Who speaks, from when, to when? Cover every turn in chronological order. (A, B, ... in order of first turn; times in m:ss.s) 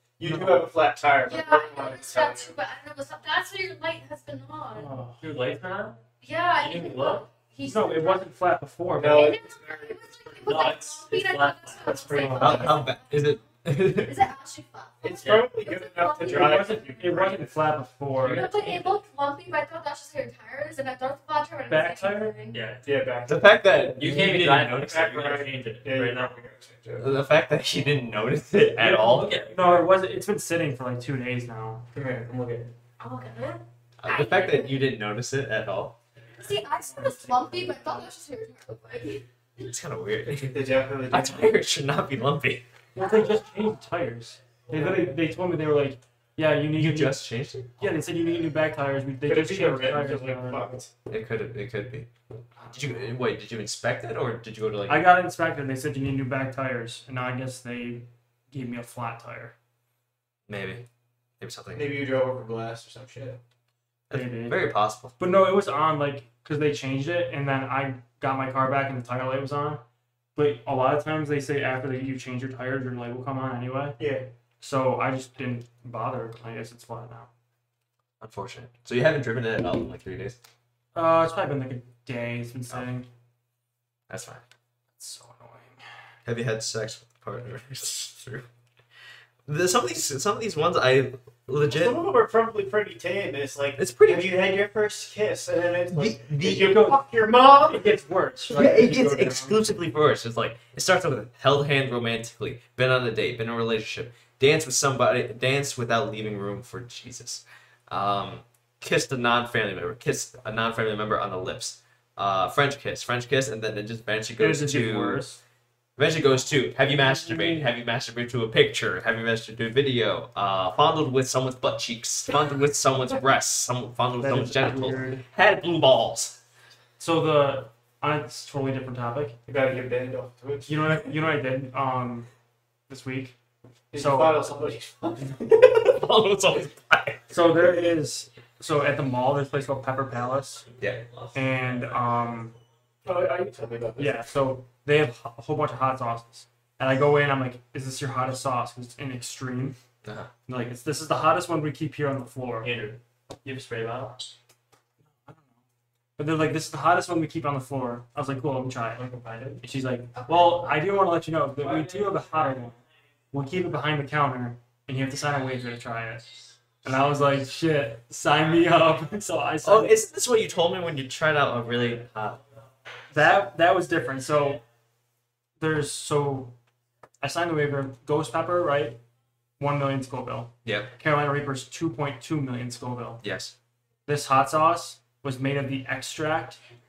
0:00.2-0:02.5 A
0:00.2-0:00.7 B
0:01.2-0:04.9 C
0:04.7-0:05.2 B
0:05.1-0:06.0 D
0:06.2-0:08.2 C
0:06.6-0:07.2 D
0:07.6-0:09.4 B
0:08.9-0:10.6 A
0:09.1-0:16.8 C
0:10.4-0:12.7 D
0:12.1-0:12.6 B
0:12.4-0:14.2 E
0:15.0-0:17.5 A
0:15.2-0:15.5 D
0:16.2-0:18.5 B
0:18.2-0:18.9 D
0:18.2-0:22.6 C
0:21.7-0:22.4 B
0:22.5-0:22.9 D
0:22.8-0:24.1 A
0:23.3-0:25.4 E
0:24.0-0:26.4 D
0:24.8-0:27.2 A
0:27.0-0:29.4 E
0:28.8-0:31.9 B
0:29.0-0:29.9 D
0:31.9-0:32.7 A
0:33.0-0:34.8 C
0:34.0-0:36.0 E
0:36.4-0:39.2 C
0:39.6-0:42.6 E
0:40.4-0:41.5 A
0:42.9-0:47.2 B
0:43.0-0:43.5 C
0:44.7-0:45.1 A
0:46.7-0:47.8 E
0:47.8-0:50.8 B
0:49.2-0:50.9 A
0:51.1-0:52.1 E
0:52.6-0:53.0 B
0:52.7-0:55.1 E
0:54.9-0:59.5 B
1:00.5-1:00.8 E
1:01.4-1:02.0 E
1:01.7-1:03.4 A
1:04.1-1:05.2 E
1:04.1-1:04.6 B
1:05.2-1:09.8 B
1:10.4-1:14.0 B
1:14.0-1:14.3 A
1:14.6-1:17.3 B
1:18.2-1:20.4 E
1:20.9-1:23.1 B
1:24.1-1:24.4 E
1:25.0-1:25.8 B
1:26.2-1:28.5 E
1:29.4-1:32.0 E
1:31.6-1:37.9 A
1:33.8-1:34.4 E
1:35.9-1:36.9 E
1:36.6-1:37.1 B
1:37.6-1:39.6 B
1:38.5-1:55.2 E
1:54.4-1:55.4 B
1:56.0-2:06.4 E
1:57.0-1:57.7 B
2:04.2-2:05.2 B
2:07.0-2:09.4 B
2:09.5-2:10.9 A
2:10.7-2:12.3 B
2:12.9-2:13.3 B
2:13.9-2:15.5 A
2:13.9-2:14.4 B
2:15.4-2:17.3 E
2:17.3-2:20.6 B
2:20.8-2:21.0 E
2:21.3-2:22.5 B
2:21.7-2:21.9 D
2:23.0-2:24.2 A
2:24.0-2:29.8 B
2:30.0-2:30.3 E
2:30.5-2:32.7 B
2:32.6-2:34.2 D
2:35.1-2:35.5 B
2:36.2-2:39.0 B
2:39.0-2:39.6 D
2:39.6-2:42.8 B
2:40.1-2:40.8 C
2:41.6-2:42.6 D
2:43.3-2:50.0 B
2:49.6-2:52.4 E
2:53.1-2:54.6 B
2:55.6-2:56.6 B
2:57.2-2:59.0 B
2:59.6-3:03.2 B
3:00.6-3:00.9 E
3:03.2-3:03.5 E
3:04.1-3:06.6 B